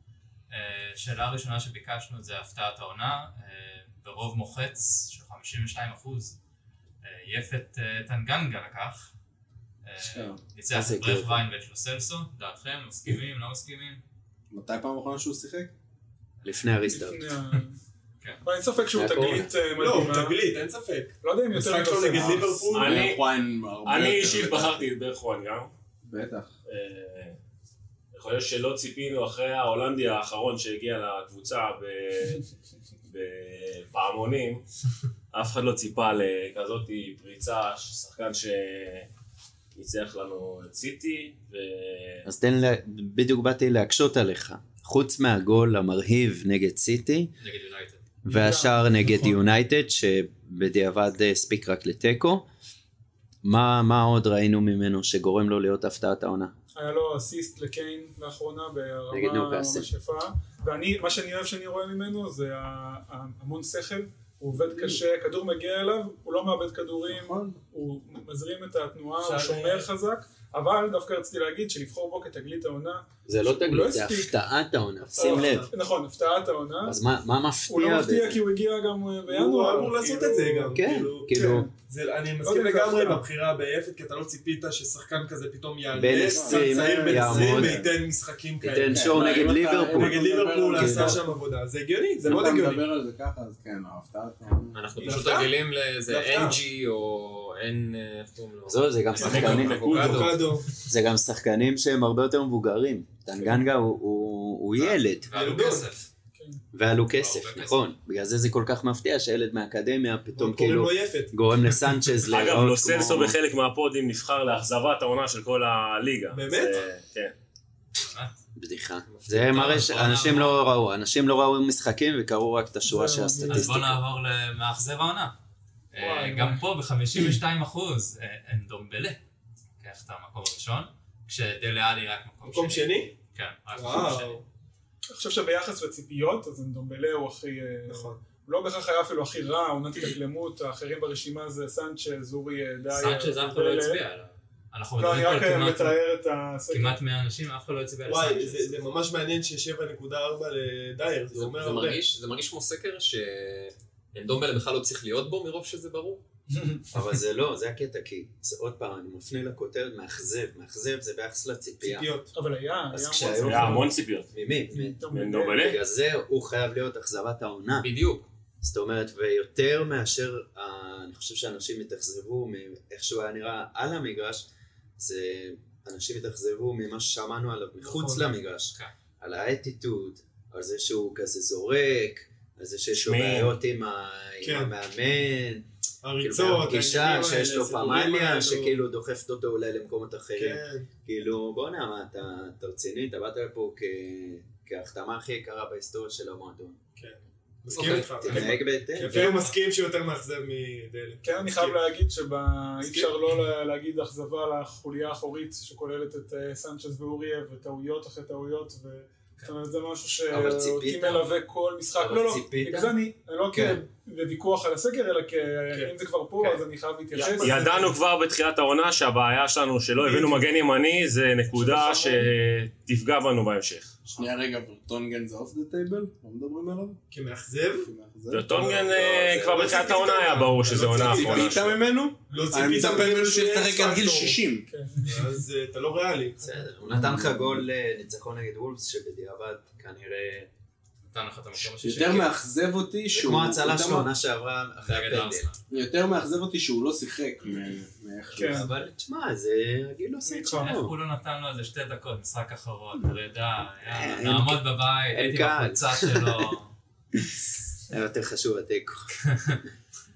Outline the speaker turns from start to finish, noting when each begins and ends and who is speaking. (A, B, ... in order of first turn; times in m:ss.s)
0:00.5-0:06.4 A
0:07.0-0:09.1 A
0:09.8-0:14.0 A
0:10.0-0:10.4 B
0:10.7-0:11.4 C
0:14.5-0:15.7 B
0:16.4-0:16.7 A
0:16.4-0:17.2 C
0:16.9-0:17.8 D
0:18.4-0:20.4 D
0:18.9-0:19.5 C
0:19.8-0:23.1 E
0:21.2-0:22.9 D
0:22.7-0:23.2 F
0:22.8-0:24.8 B
0:23.8-0:25.7 F
0:26.0-0:26.5 B
0:26.6-0:27.4 F
0:28.1-0:32.4 F
0:33.1-0:34.6 F
0:35.3-0:39.1 F
0:39.7-0:42.2 F
0:42.2-0:47.3 C
0:47.4-0:48.0 A
0:48.2-0:52.4 C
0:48.3-0:49.4 D
0:53.4-0:56.5 C
0:56.7-1:14.4 D
0:59.1-0:59.9 C
1:07.1-1:07.6 B
1:09.2-1:09.9 E
1:13.2-1:15.7 C
1:15.1-1:17.0 D
1:15.1-1:15.7 E
1:16.8-1:18.4 C
1:17.7-1:20.8 D
1:19.3-1:32.8 E
1:20.7-1:21.7 C
1:21.4-1:21.8 D
1:22.4-1:23.3 D
1:25.9-1:27.8 C
1:26.3-1:27.8 D
1:26.3-1:27.9 B
1:28.6-1:31.2 C
1:28.9-1:31.2 B
1:32.2-1:34.9 B
1:34.7-1:40.3 G
1:35.0-1:35.6 E
1:36.1-1:36.6 E
1:38.7-1:39.8 C
1:39.2-1:40.4 F
1:39.3-1:40.7 E
1:40.9-1:45.7 C
1:43.4-1:43.6 D
1:44.8-1:46.1 A
1:45.3-1:45.9 E
1:46.3-1:46.6 D
1:46.7-1:53.4 C
1:47.1-1:47.9 A
1:50.4-1:52.0 E
1:52.3-1:57.3 F
1:56.3-1:56.7 E
1:56.6-1:56.9 A
1:58.0-1:58.3 A
1:58.6-2:04.0 C
1:59.1-1:59.7 G
1:59.5-2:00.6 A
2:02.9-2:03.7 D
2:03.5-2:05.3 A
2:05.9-2:09.2 A
2:05.9-2:06.6 D
2:09.8-2:14.4 A
2:12.4-2:13.1 E
2:13.7-2:14.4 E
2:15.1-2:24.0 D
2:17.9-2:18.2 E
2:22.9-2:26.0 A
2:25.0-2:27.0 D
2:26.7-2:29.0 A
2:28.0-2:32.0 E
2:31.3-2:36.2 G
2:36.5-2:37.0 D
2:36.9-2:42.1 C
2:41.8-2:42.3 E
2:42.3-2:43.9 D
2:42.9-2:47.9 C
2:43.4-2:44.3 F
2:44.7-2:45.8 D
2:45.1-2:45.8 F
2:47.8-2:48.3 G
2:48.6-2:54.5 C
2:55.0-3:05.6 C
2:57.8-2:58.3 E
3:02.9-3:03.5 F
3:04.4-3:04.8 E
3:06.0-3:08.8 E
3:06.2-3:16.8 C
3:10.3-3:10.9 E
3:17.0-3:21.8 E
3:17.7-3:18.6 G
3:18.2-3:19.3 C
3:19.0-3:19.6 A
3:19.0-3:19.5 D
3:21.2-3:37.6 D
3:30.3-3:31.2 C
3:32.0-3:32.9 C
3:33.5-3:33.8 C
3:37.1-3:44.0 F
3:37.4-3:38.0 E
3:40.0-3:40.4 D
3:41.5-3:42.3 D
3:44.2-3:47.0 B
3:47.1-3:47.9 E
3:47.8-3:48.7 B
3:48.3-3:51.7 F
3:48.5-3:50.2 C
3:49.6-3:51.8 E
3:51.1-3:54.6 B
3:52.3-3:54.4 E
3:54.7-3:55.4 D
3:55.0-3:56.4 E
3:56.4-4:00.5 C
3:57.0-3:57.4 B
4:01.0-4:02.4 A
4:01.6-4:04.1 B
4:03.1-4:05.4 C
4:04.8-4:05.6 A
4:05.7-4:08.7 B
4:08.4-4:10.9 C
4:08.4-4:08.7 D
4:10.2-4:10.8 D
4:10.6-4:16.7 A
4:13.8-4:16.5 C
4:17.1-4:19.1 C